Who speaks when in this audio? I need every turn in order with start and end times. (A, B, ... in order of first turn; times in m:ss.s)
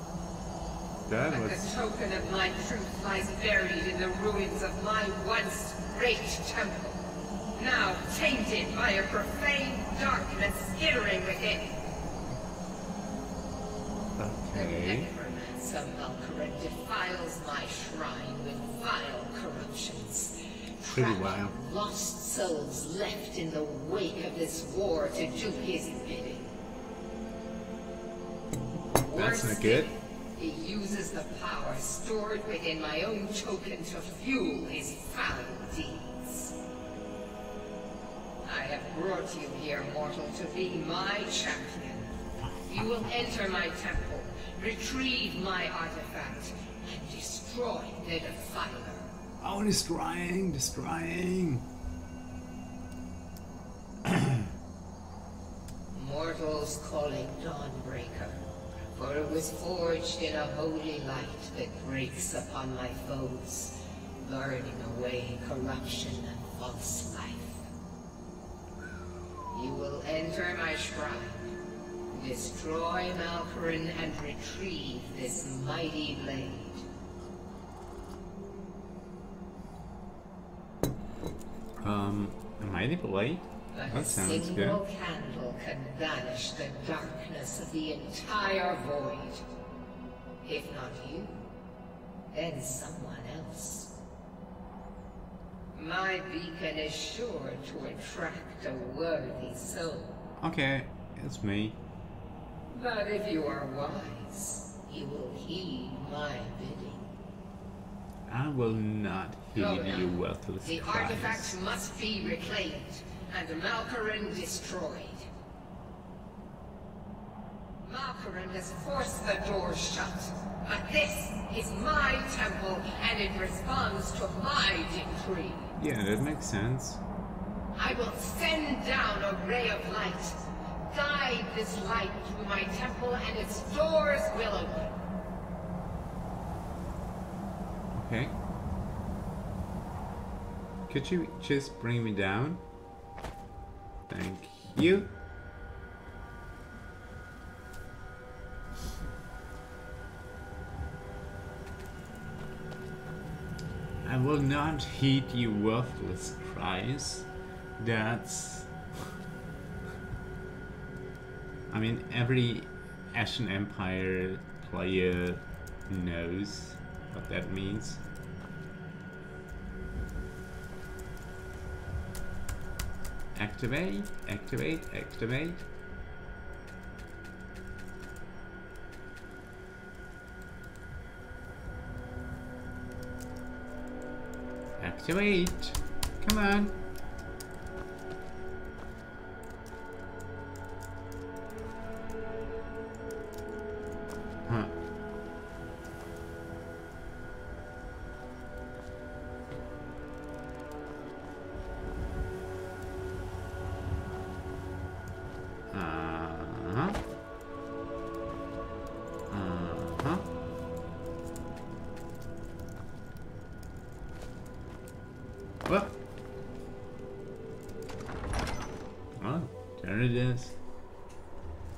0:01.1-0:01.7 A
0:01.3-0:07.0 B
0:07.5-0:11.8 B
0:14.2-0:15.1 A
0:14.5-0:26.5 B
0:20.9-0:21.6 A
0:29.0-0:29.9 A
0:29.1-0:36.5 B
0:38.4-0:42.2 B
0:42.4-0:43.0 A
0:42.7-0:49.1 B
0:49.4-0:51.7 A
0:54.0-0:54.5 A
0:55.9-0:58.4 B
0:58.9-1:07.7 B
1:09.5-1:11.5 B
1:12.1-1:16.8 B
1:21.8-1:24.8 A
1:23.7-1:29.4 B
1:30.4-1:31.4 B
1:32.3-1:33.9 B
1:35.7-1:40.1 B
1:40.4-1:41.8 A
1:42.7-1:47.1 B
1:48.3-1:51.6 A
1:49.6-1:55.3 B
1:57.8-2:05.7 B
2:05.8-2:07.0 A
2:07.7-2:15.0 B
2:17.9-2:18.4 A
2:20.9-2:22.6 A
2:24.1-2:25.1 A
2:34.0-2:38.7 A
2:41.7-2:48.0 A
2:53.4-2:55.6 A
3:04.8-3:06.8 A
3:14.5-3:14.7 A
3:25.7-3:27.0 A
3:29.3-3:30.3 A
3:35.7-3:36.0 A
3:39.2-3:40.6 A